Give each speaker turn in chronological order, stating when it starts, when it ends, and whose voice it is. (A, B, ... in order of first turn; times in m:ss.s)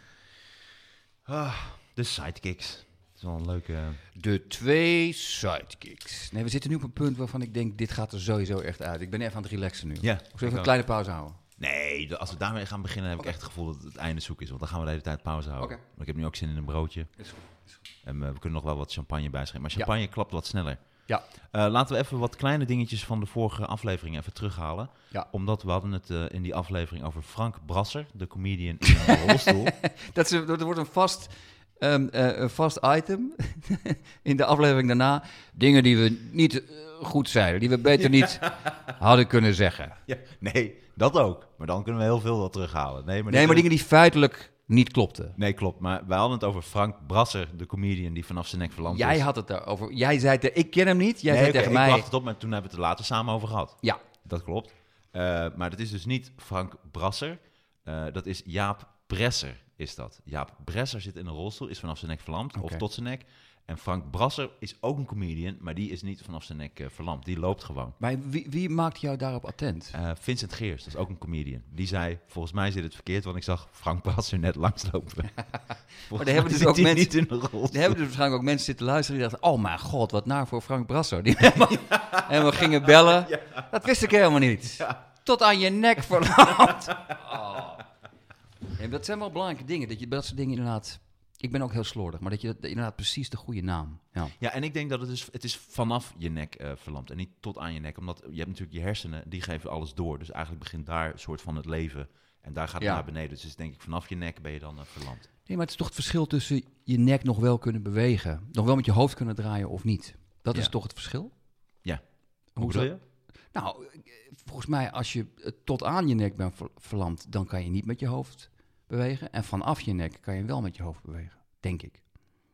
0:01.2-0:04.0 A
0:04.2-0:11.4 B
0:10.0-0:10.7 A
0:11.6-0:17.1 A
0:17.2-0:17.8 B
0:18.0-0:20.8 A
0:21.4-0:29.7 A
0:29.0-0:40.0 B
0:38.0-0:38.7 A
0:40.1-0:43.7 A
0:43.3-0:45.4 B
0:45.4-0:49.2 A
0:48.9-0:52.1 B
0:51.3-1:08.0 A
1:02.5-1:02.8 B
1:08.0-1:10.0 B
1:09.9-1:15.3 A
1:16.1-1:18.0 A
1:16.1-1:27.8 B
1:21.7-1:23.7 A
1:28.8-1:34.3 B
1:34.4-1:45.3 A
1:45.4-1:51.3 B
1:52.6-1:52.9 B
1:52.6-1:53.0 A
1:53.5-2:02.0 B